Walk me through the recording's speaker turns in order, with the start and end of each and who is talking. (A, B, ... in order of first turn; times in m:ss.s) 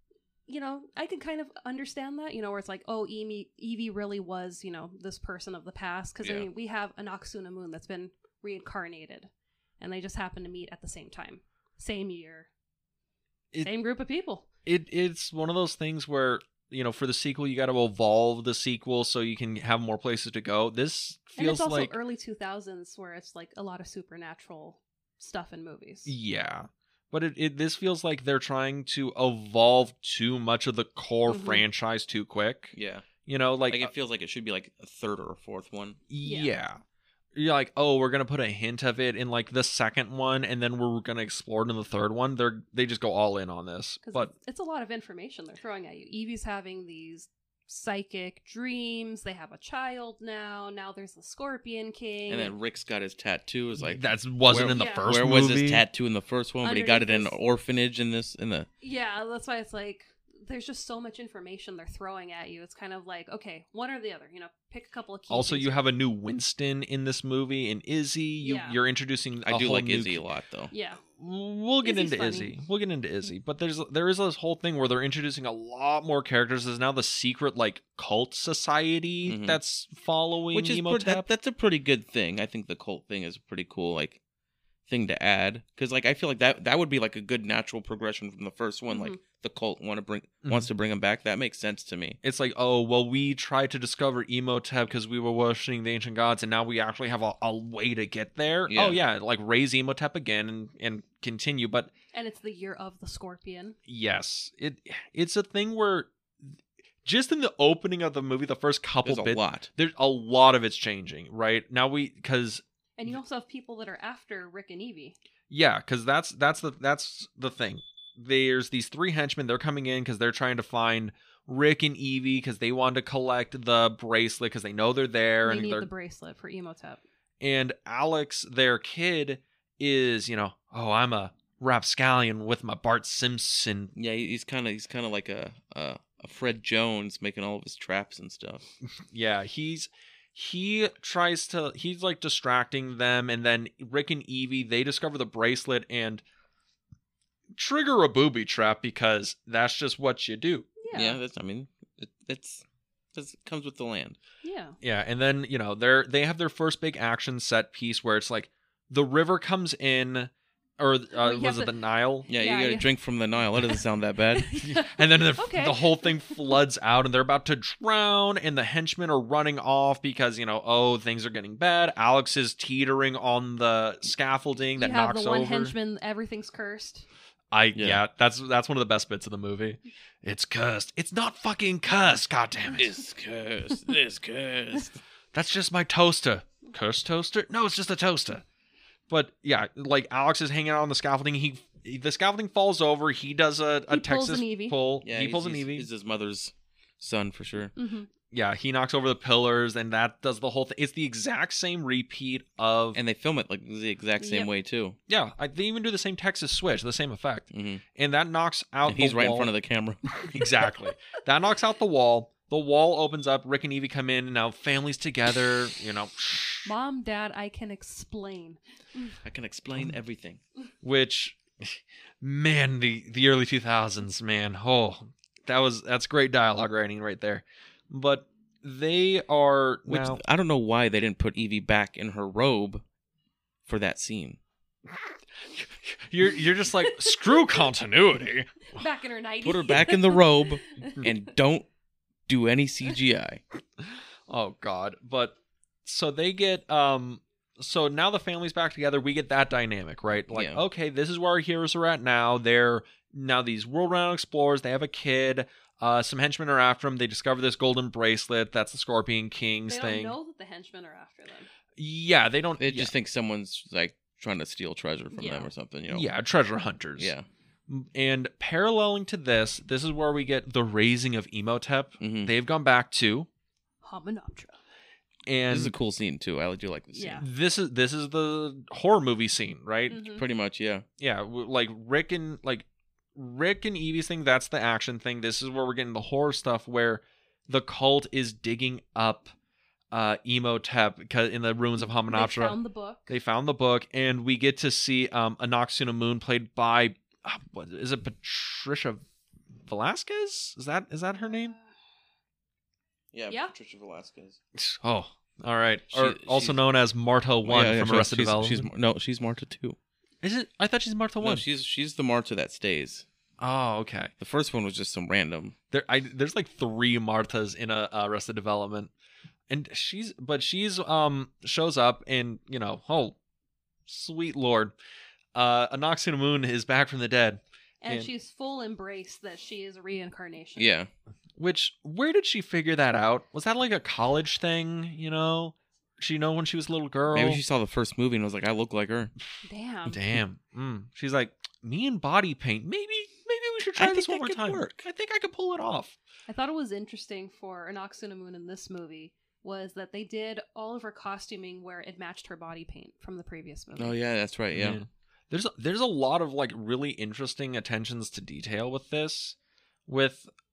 0:00.5-0:12.5 A
0:06.2-0:06.5 B
0:13.6-0:14.4 A
0:14.6-0:21.9 C
0:21.4-0:26.1 A
0:26.0-0:32.7 C
0:31.3-0:31.6 A
0:32.7-0:33.1 B
0:33.2-0:33.9 C
0:33.7-0:36.0 B
0:36.1-0:36.8 C
0:36.2-0:36.5 A
0:37.3-0:44.3 C
0:44.0-0:52.5 A
0:52.3-0:58.7 B
0:53.8-0:55.8 C
0:54.7-0:55.1 A
0:56.6-0:57.3 A
0:58.8-1:05.8 A
1:05.3-1:10.2 C
1:08.4-1:08.8 A
1:09.4-1:10.7 B
1:10.7-1:11.0 A
1:11.2-1:21.3 C
1:11.8-1:12.5 A
1:19.2-1:19.6 B
1:20.5-1:24.2 B
1:24.9-1:32.2 B
1:28.9-1:29.2 A
1:30.4-1:30.7 C
1:32.2-1:41.9 C
1:38.7-1:39.0 B
1:42.1-1:43.8 A
1:43.9-1:46.5 C
1:47.0-1:52.6 C
1:49.0-1:49.7 B
1:53.0-1:55.2 A
1:55.5-2:05.9 C
2:05.4-2:07.0 A
2:07.4-2:13.9 C
2:14.0-2:18.7 B
2:19.0-2:26.2 C
2:27.5-2:30.7 C
2:30.8-2:31.2 A
2:30.9-2:32.6 B
2:33.1-2:34.2 B
2:34.4-2:34.8 A
2:34.8-2:42.3 C
2:41.1-2:42.9 A
2:42.3-2:44.5 B
2:44.3-2:46.0 A
2:44.6-2:55.7 C
2:54.8-2:57.1 A
2:57.5-3:03.0 C
2:57.7-2:58.0 B
3:02.7-3:05.0 B
3:05.3-3:08.4 C
3:09.1-3:15.9 C
3:13.9-3:14.8 A
3:15.0-3:17.7 B
3:17.8-3:18.1 A
3:18.3-3:23.0 C
3:22.9-3:25.0 B
3:24.2-3:24.5 A
3:25.1-3:29.5 C
3:27.5-3:27.8 B
3:28.9-3:30.4 B
3:30.2-3:36.7 C
3:36.6-3:39.1 A
3:39.2-3:40.4 B
3:40.8-3:50.2 C
3:49.9-3:52.8 B
3:53.7-3:54.4 B
3:54.9-3:58.6 C
3:56.8-3:57.7 A
3:58.7-4:01.0 A
3:59.4-4:01.7 B
4:02.3-4:03.4 B
4:04.3-4:20.2 C
4:10.3-4:10.6 B
4:19.7-4:21.5 A
4:21.8-4:22.9 C
4:22.6-4:26.1 B
4:25.1-4:25.5 A
4:25.9-4:27.1 C
4:27.0-4:27.2 B
4:27.7-4:33.3 C
4:32.0-4:32.3 B
4:33.8-4:34.6 A
4:35.2-4:35.7 C
4:35.5-4:37.2 B
4:36.9-4:37.2 A
4:37.2-4:40.1 C
4:39.9-4:40.2 A
4:40.0-4:40.8 B
4:41.0-4:49.3 C
4:49.9-4:52.6 C
4:52.1-4:53.1 A
4:53.1-4:59.0 C
4:59.7-5:01.5 C
5:03.1-5:04.4 B
5:03.3-5:03.5 A
5:04.5-5:08.7 C
5:05.9-5:06.6 B
5:07.4-5:09.8 B
5:10.2-5:11.4 C
5:11.2-5:13.0 B
5:13.4-5:14.1 C
5:14.2-5:15.5 B
5:15.7-5:18.9 C
5:19.5-5:23.2 C
5:23.9-5:24.7 C
5:25.3-5:28.1 C
5:27.8-5:30.7 A
5:30.6-5:30.9 B
5:31.4-5:37.4 C
5:37.1-5:39.1 B
5:39.4-5:40.0 A
5:39.9-5:46.0 C
5:43.8-5:44.8 B
5:46.3-5:54.0 A
5:53.8-5:54.8 B
5:54.5-5:59.4 C
5:59.9-6:00.3 C